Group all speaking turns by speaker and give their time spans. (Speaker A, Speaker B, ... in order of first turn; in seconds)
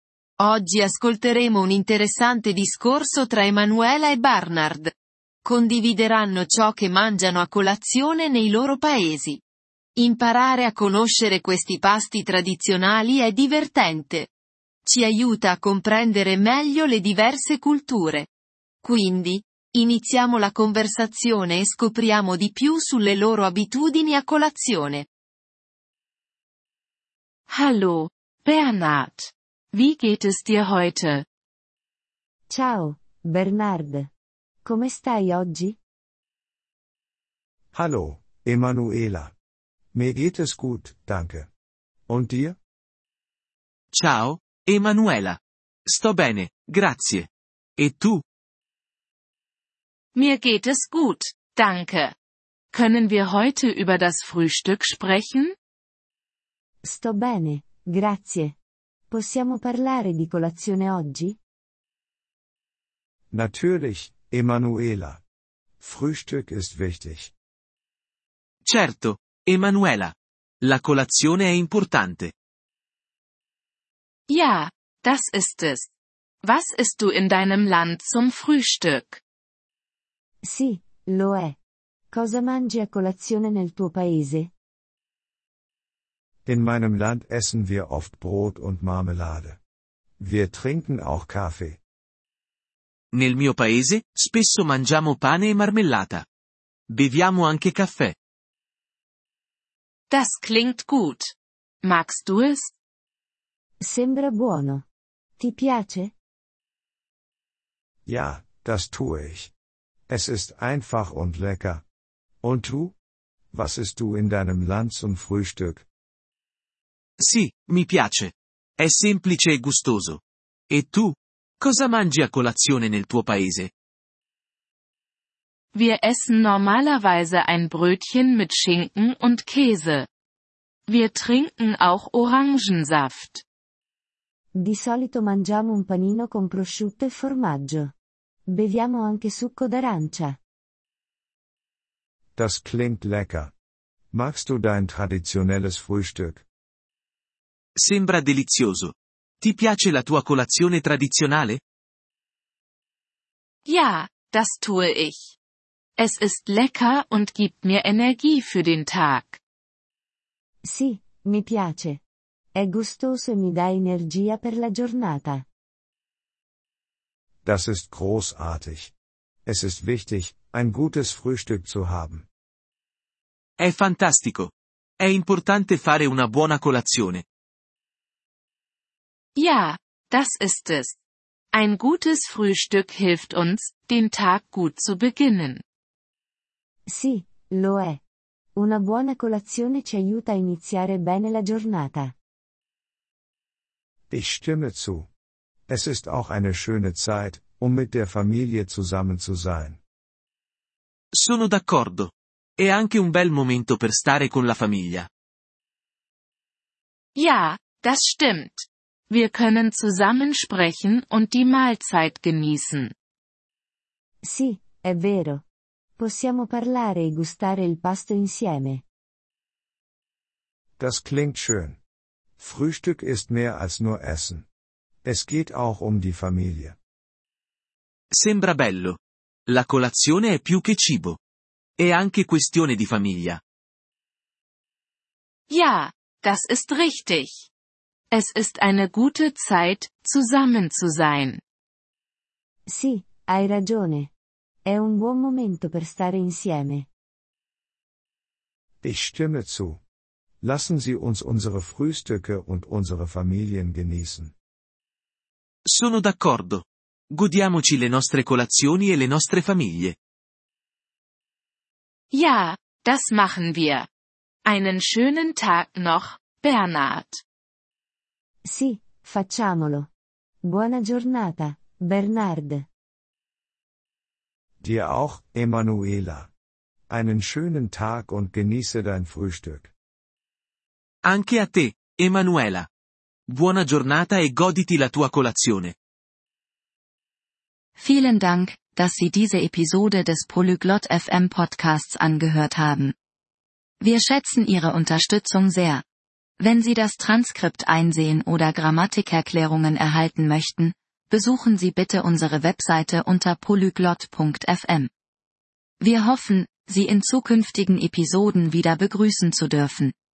Speaker A: 0.4-4.9, 5.4-9.4, 9.9-14.3, 14.8-18.3, 18.8-25.1
Speaker B: 27.5-31.2, 50.1-52.1, 52.7-55.5, 74.3-75.9, 76.4-79.2, 100.1-102.7, 125.7-130.1, 130.9-133.4, 153.6-155.3, 156.0-159.4, 179.3-181.0, 181.5-185.6, 207.1-212.9, 235.5-237.4, 238.1-241.4, 262.1-263.9, 264.4-267.2
Speaker C: 32.5-34.1, 34.6-35.8, 56.8-58.5, 59.1-61.4, 80.4-81.5, 82.1-84.5, 103.8-104.8, 105.4-106.1, 134.6-137.9, 138.5-140.4, 160.6-162.0, 162.6-165.4, 186.9-188.0, 188.6-192.1, 214.2-215.4, 216.0-218.8, 242.7-244.1, 244.7-246.8, 268.5-269.9, 270.4-272.6
Speaker D: 37.7-39.3, 39.9-41.5, 42.1-42.6, 63.3-65.2, 65.8-67.3, 86.5-89.6, 90.2-91.8, 108.0-109.5, 110.1-111.8, 112.4-112.9, 113.5-115.8, 142.3-143.5, 144.1-146.4, 167.4-168.9, 169.4-172.2, 194.1-195.1, 195.7-199.8, 220.8-221.8, 222.4-224.4, 225.0-226.8, 248.8-249.8, 250.4-254.3, 274.6-276.3, 276.9-279.7
Speaker E: 43.9-48.2, 68.7-72.3, 93.1-96.2, 96.9-98.1, 117.2-123.7, 147.8-151.6, 173.6-177.2, 201.2-205.1, 228.1-231.2, 231.8-233.4, 255.7-259.9, 281.1-282.7, 283.3-285.7
Speaker F: 287.8-292.9, 293.8-295.8, 296.4-304.9, 305.8-309.9